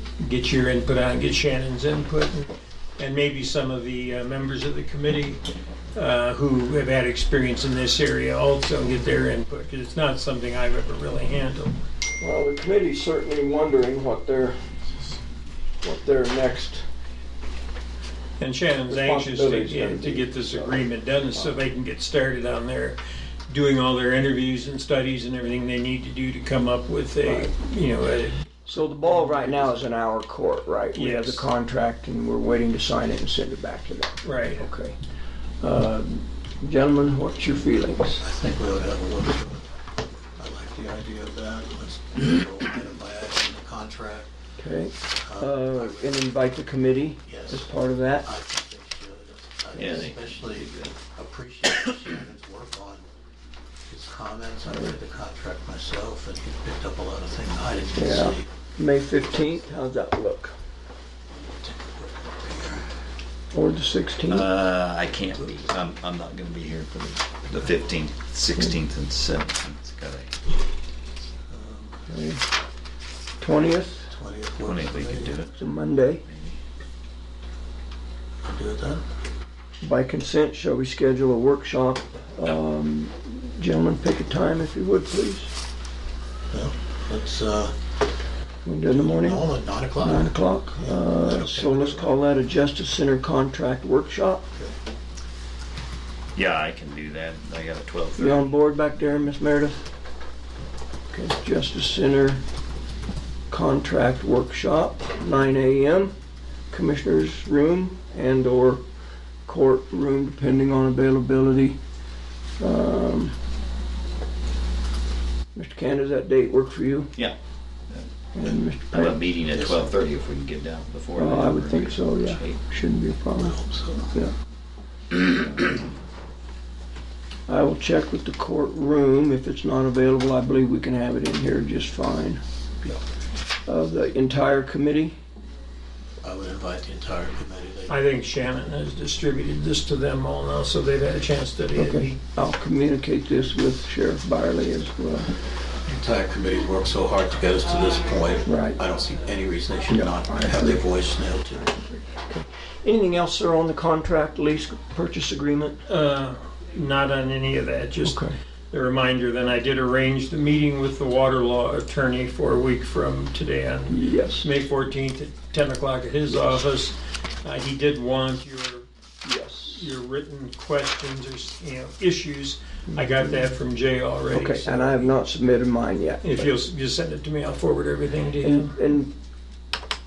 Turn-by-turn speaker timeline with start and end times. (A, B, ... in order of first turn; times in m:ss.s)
0:00.2-0:05.4 A
0:05.9-0:11.8 A
0:12.2-0:14.6 B
0:15.8-0:16.8 B
0:18.4-0:29.7 A
0:18.9-0:21.6 B
0:27.2-0:27.5 B
0:28.7-0:35.0 B
0:30.9-0:31.4 A
0:34.2-0:34.7 A
0:35.6-0:38.2 B
0:38.2-0:39.7 C
0:40.4-0:44.3 C
0:44.6-0:48.3 B
0:45.2-0:46.4 C
0:47.2-0:53.0 C
0:49.7-0:50.9 D
0:53.9-0:58.5 C
0:54.7-0:54.9 B
0:57.9-1:00.5 B
1:01.3-1:02.8 C
1:03.5-1:04.5 B
1:04.2-1:10.3 D
1:11.5-1:12.1 C
1:12.1-1:12.4 B
1:13.4-1:14.1 B
1:14.1-1:15.4 C
1:14.6-1:15.6 D
1:15.5-1:16.2 B
1:16.2-1:16.6 D
1:18.4-1:19.0 C
1:19.8-1:25.5 B
1:26.5-1:27.7 C
1:28.6-1:34.4 B
1:28.9-1:32.2 C
1:36.3-1:38.5 D
1:38.2-1:39.8 B
1:41.1-1:42.4 B
1:43.5-1:46.1 B
1:46.7-1:48.8 B
1:49.4-1:51.8 B
1:52.6-1:53.3 B
1:55.5-1:57.1 B
1:58.3-1:59.2 B
1:58.9-2:02.6 D
1:59.4-2:00.0 C
2:01.2-2:03.6 B
2:03.4-2:04.1 C
2:07.5-2:12.4 B
2:13.6-2:15.2 B
2:16.2-2:18.0 C
2:17.9-2:22.2 A
2:21.7-2:25.4 B
2:25.8-2:31.9 C
2:28.4-2:28.8 B
2:29.9-2:30.8 B
2:32.2-2:35.8 B
2:35.8-2:48.9 A
2:38.0-2:38.3 B
2:43.9-2:44.5 B
2:49.2-2:49.9 B
2:49.6-2:55.2 A
2:52.9-2:53.4 B
2:54.3-2:56.5 B
2:56.2-2:58.8 A
2:58.4-2:59.1 B